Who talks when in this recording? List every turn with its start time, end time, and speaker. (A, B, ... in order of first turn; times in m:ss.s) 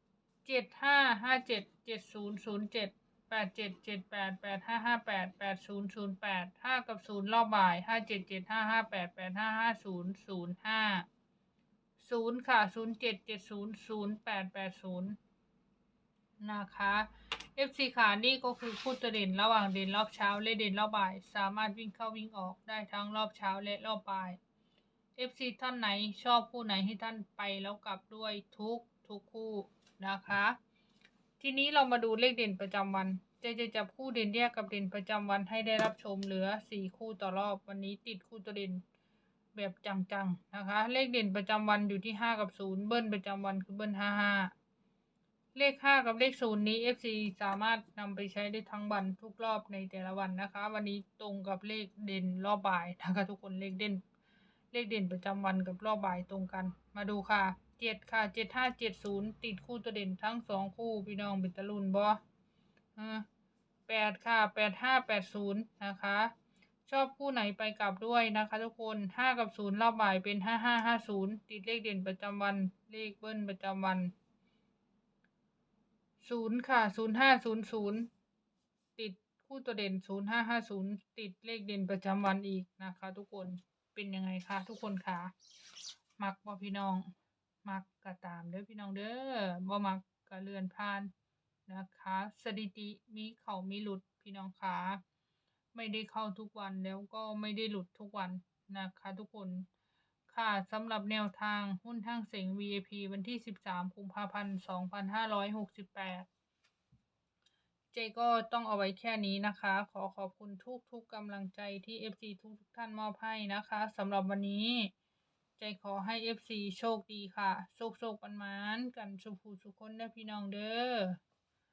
0:00.4-0:11.1 A
0:12.0-0:15.2 A
0:16.4-0:24.4 A
0:25.2-0:30.6 A
0:31.4-0:38.8 A
0:39.6-0:44.5 A
0:45.6-0:54.0 A
0:54.7-1:02.2 A
1:03.0-1:03.2 A
1:03.9-1:06.3 A
1:06.9-1:14.1 A
1:16.2-1:18.1 A
1:19.0-1:25.3 A
1:26.2-1:27.1 A
1:27.6-1:31.1 A
1:31.7-1:35.0 A
1:35.7-1:39.7 A
1:40.3-1:46.3 A
1:47.9-1:54.9 A
1:55.6-2:01.2 A